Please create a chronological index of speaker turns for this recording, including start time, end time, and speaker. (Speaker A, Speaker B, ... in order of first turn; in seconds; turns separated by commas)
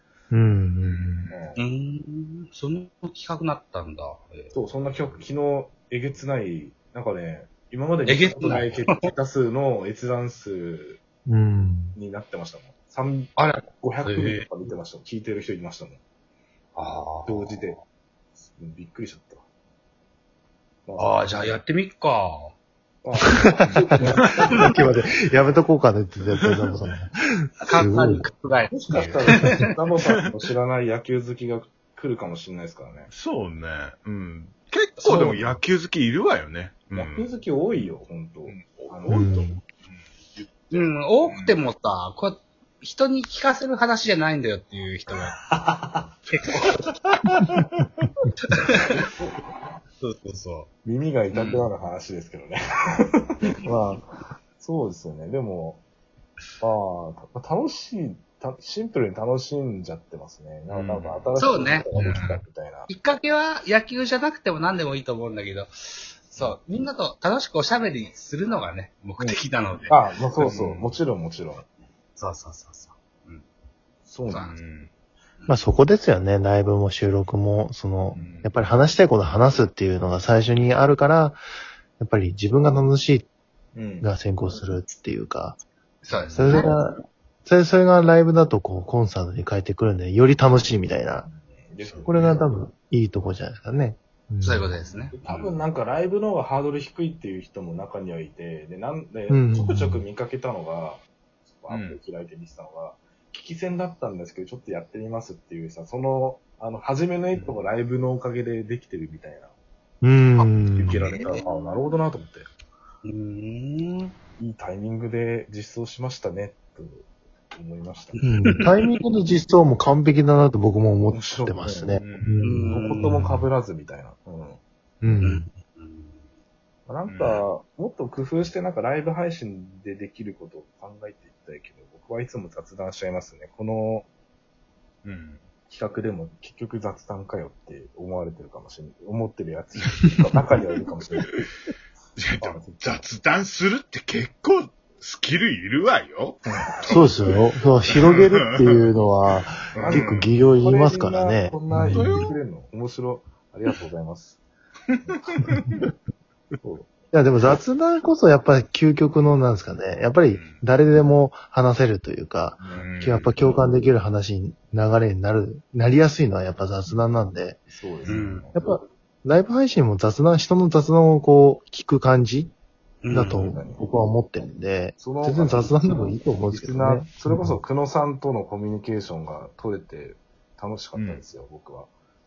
Speaker A: 0.3-1.3, Speaker B: 0.8-1.4, Speaker C: 1.3-1.6, Speaker D: 1.6-4.5, Speaker C: 4.5-11.0, Speaker D: 8.1-9.0, Speaker A: 11.3-11.9, Speaker C: 11.9-16.0, Speaker D: 13.3-14.5, Speaker D: 16.7-17.7, Speaker C: 17.2-17.8, Speaker C: 18.5-19.4, Speaker C: 20.9-21.1, Speaker D: 21.0-22.5, Speaker C: 23.0-24.7, Speaker A: 23.6-28.2, Speaker B: 24.2-24.6, Speaker D: 27.6-29.6, Speaker C: 28.7-33.1, Speaker B: 33.1-37.3, Speaker D: 35.0-35.3, Speaker C: 35.1-35.5, Speaker C: 36.9-39.2, Speaker B: 38.5-41.5, Speaker A: 39.1-39.6, Speaker D: 40.7-45.4, Speaker D: 46.3-46.8, Speaker B: 47.1-48.0, Speaker C: 48.8-49.3, Speaker D: 50.0-50.7, Speaker C: 50.8-52.6, Speaker D: 51.3-51.6, Speaker C: 53.4-55.8, Speaker C: 56.6-62.9, Speaker B: 60.7-61.3, Speaker D: 61.4-62.2, Speaker B: 61.9-62.4, Speaker D: 62.9-69.9, Speaker C: 69.2-71.6, Speaker B: 70.4-70.9, Speaker D: 72.2-73.4, Speaker C: 74.0-74.5, Speaker D: 74.3-74.5, Speaker B: 74.5-74.9, Speaker A: 75.5-81.4, Speaker B: 78.1-78.5, Speaker A: 82.0-83.3, Speaker C: 83.7-84.1, Speaker A: 84.0-85.6, Speaker D: 86.0-86.7, Speaker A: 86.3-91.3, Speaker C: 91.5-92.4, Speaker B: 91.8-92.3, Speaker A: 92.0-94.7, Speaker D: 94.4-95.1, Speaker C: 95.1-101.0, Speaker B: 95.2-95.6, Speaker A: 99.3-100.0, Speaker C: 101.6-109.5, Speaker B: 101.7-102.0, Speaker A: 110.0-111.1, Speaker C: 110.4-112.5, Speaker D: 111.0-111.4, Speaker D: 113.0-114.1, Speaker C: 114.4-118.2, Speaker D: 118.2-118.7, Speaker A: 118.2-123.4, Speaker C: 121.1-124.6, Speaker B: 122.0-122.4, Speaker D: 122.4-123.3, Speaker A: 125.0-125.4, Speaker D: 125.2-126.2, Speaker C: 126.9-134.1, Speaker B: 127.0-127.5, Speaker B: 135.0-135.4, Speaker C: 135.7-141.3, Speaker B: 142.2-146.9, Speaker C: 142.4-142.7, Speaker C: 146.5-147.0, Speaker A: 146.9-152.3, Speaker B: 147.9-148.8, Speaker B: 149.7-150.4, Speaker C: 149.8-154.4, Speaker B: 151.9-152.4, Speaker B: 154.9-155.8, Speaker C: 156.6-156.9, Speaker A: 157.1-167.6, Speaker B: 160.3-160.6, Speaker C: 162.6-162.9, Speaker B: 162.7-163.3, Speaker C: 167.7-168.8, Speaker B: 168.1-168.4, Speaker D: 168.1-168.4, Speaker A: 168.6-172.5, Speaker D: 173.0-173.5, Speaker A: 173.1-177.6, Speaker C: 173.2-173.8, Speaker C: 175.0-181.9, Speaker B: 180.9-181.2